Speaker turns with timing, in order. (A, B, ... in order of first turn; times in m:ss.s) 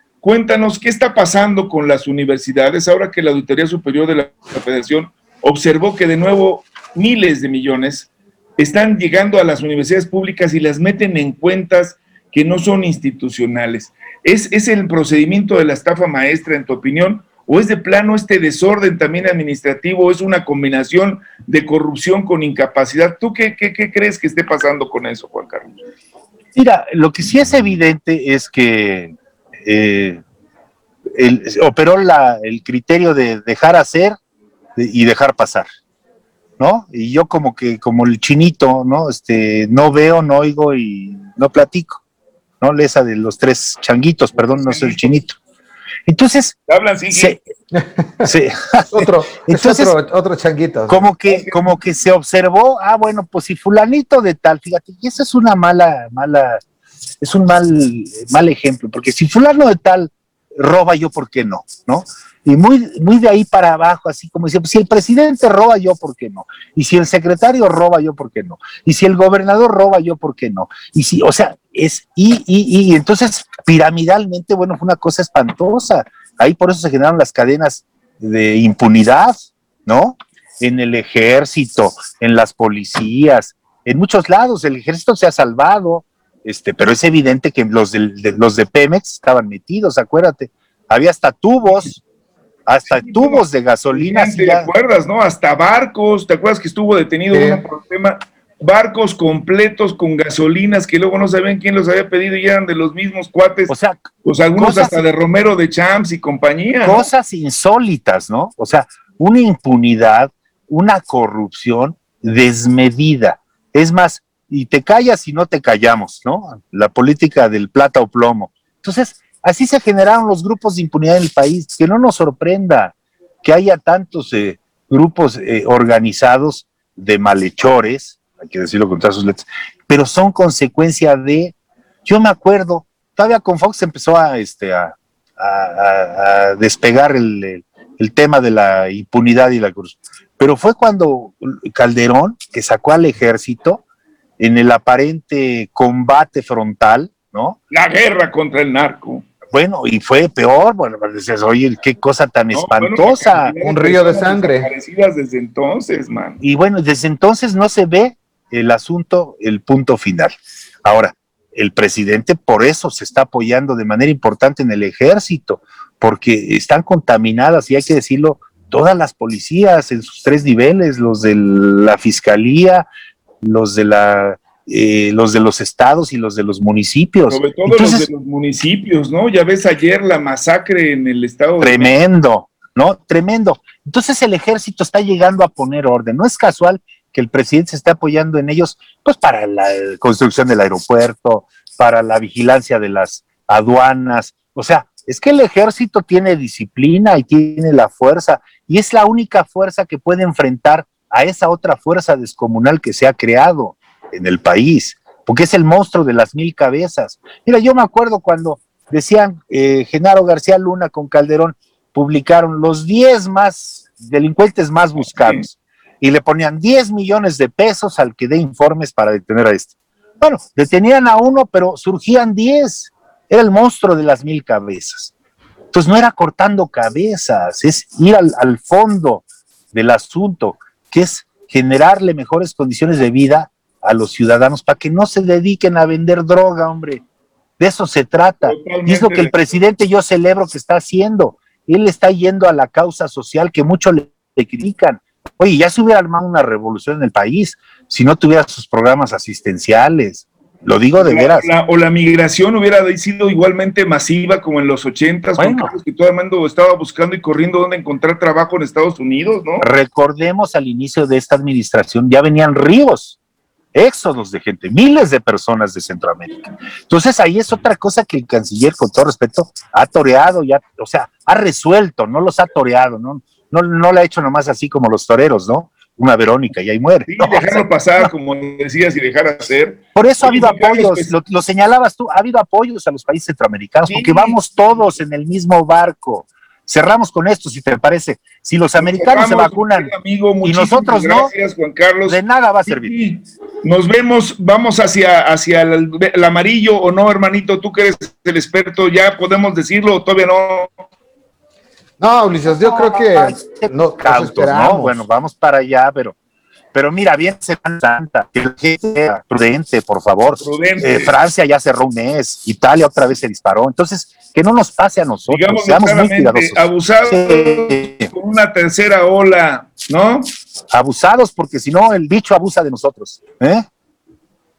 0:00.2-0:25.7 A
0:26.6-0:30.2 B
0:31.1-0:34.2 B
0:34.8-0:35.7 B
0:36.6-0:42.0 B
0:42.6-0:45.4 B
0:44.4-0:45.2 A
0:46.1-0:46.6 B
0:46.7-0:47.4 A
0:47.1-0:47.4 B
0:47.7-0:48.3 C
0:48.2-0:49.9 B
0:48.9-0:51.0 C
0:50.9-0:56.6 B
0:51.3-0:51.6 A
0:57.2-1:32.0 B
1:32.6-1:34.7 B
1:32.9-1:43.7 A
1:37.3-1:37.6 C
1:43.7-1:44.0 B
1:44.2-1:47.1 A
1:44.6-1:45.0 B
1:46.8-2:23.8 B
2:24.4-2:27.6 B
2:27.7-2:29.3 A
2:29.5-2:33.5 B
2:32.5-2:36.4 A
2:33.6-2:34.7 C
2:36.4-2:40.3 B
2:40.8-2:52.9 B
2:53.4-2:58.1 B
2:57.3-3:01.9 A
3:01.6-3:45.1 B
3:35.0-3:35.4 A
3:45.7-3:57.0 B
3:57.6-4:11.5 B
3:58.4-3:59.6 A
4:11.0-4:19.6 A
4:15.4-4:15.7 B
4:19.6-4:23.2 B
4:23.7-4:38.1 B
4:37.1-4:41.1 A
4:40.0-4:49.9 B
4:43.9-4:44.4 A
4:48.8-5:00.7 A
4:50.4-4:51.3 B
4:52.0-4:52.9 B
5:02.0-5:05.0 C
5:02.5-5:06.1 B
5:06.7-5:18.1 B
5:10.4-5:11.1 A
5:15.3-5:20.2 A
5:20.7-5:23.6 B